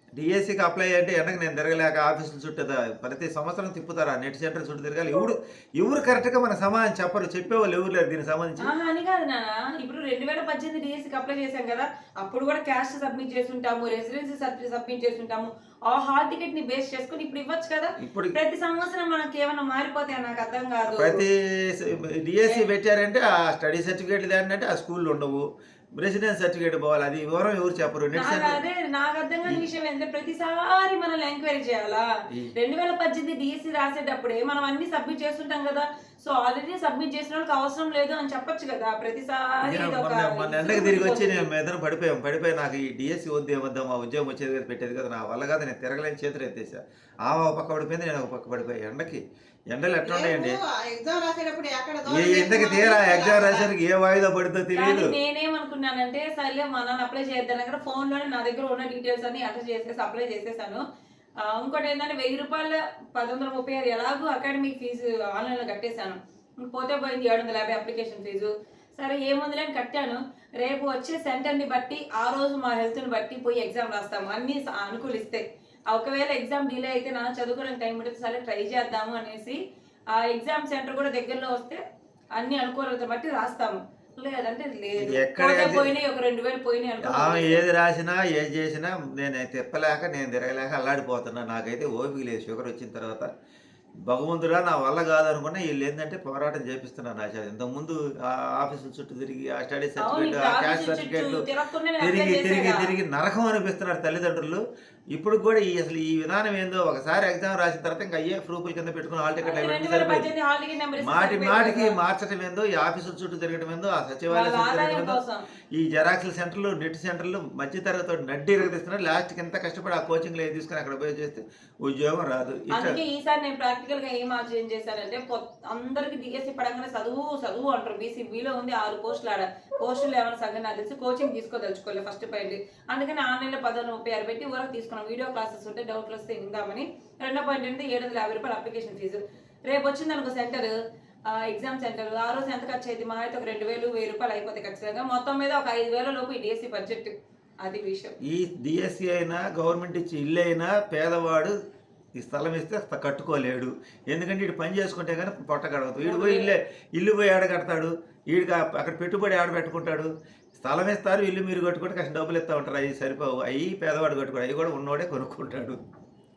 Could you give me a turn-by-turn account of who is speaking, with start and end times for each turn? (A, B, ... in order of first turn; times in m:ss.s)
0:00.1-0:08.7 A
0:08.6-0:21.2 B
0:18.0-0:18.4 A
0:20.9-0:28.6 A
0:22.4-0:22.7 B
0:28.1-0:41.5 B
0:39.6-0:50.6 A
0:50.0-0:53.7 C
0:52.1-0:55.1 A
0:54.7-1:00.8 B
1:01.4-1:19.6 B
1:20.1-1:21.8 B
1:22.4-1:27.6 B
1:25.0-1:25.9 A
1:27.0-1:33.3 A
1:34.0-1:41.5 A
1:40.0-1:42.9 B
1:42.0-1:44.6 A
1:45.1-1:50.3 A
1:49.4-1:52.0 B
1:51.0-1:55.2 A
1:54.3-1:55.4 B
1:55.7-2:03.0 A
2:02.7-2:20.7 B
2:21.3-2:28.2 B
2:28.2-2:31.5 A
2:32.2-2:45.8 A
2:36.0-2:36.5 B